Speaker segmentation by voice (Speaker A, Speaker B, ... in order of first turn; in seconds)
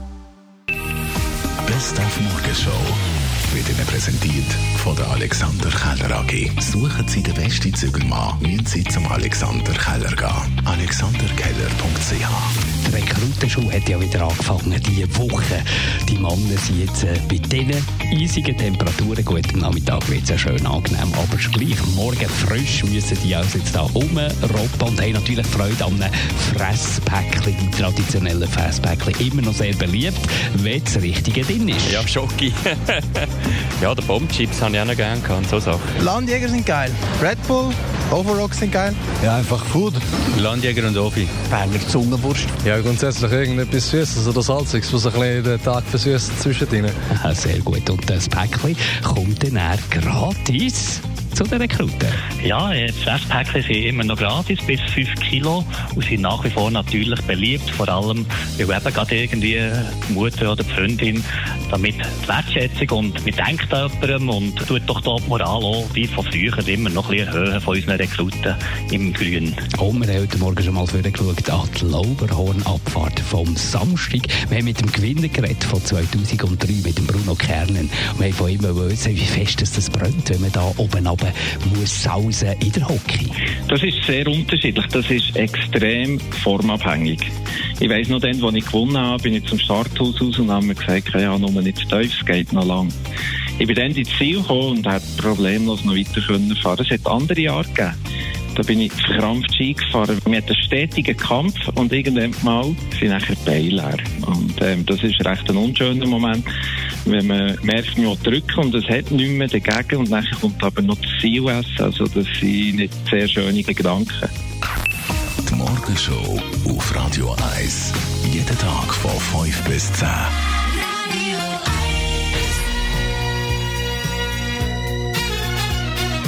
Speaker A: 1.6-12.5, 115.5-120.3
Speaker B: 12.8-32.1, 47.1-52.2, 69.8-83.4
Speaker C: 31.9-33.2, 33.8-35.9, 40.3-41.4
Speaker D: 36.0-39.1, 41.5-42.5
Speaker E: 39.2-40.0, 42.6-47.0
Speaker F: 52.4-69.6
Speaker G: 83.7-87.3, 87.8-92.9, 93.6-97.9, 98.5-106.4, 107.1-114.3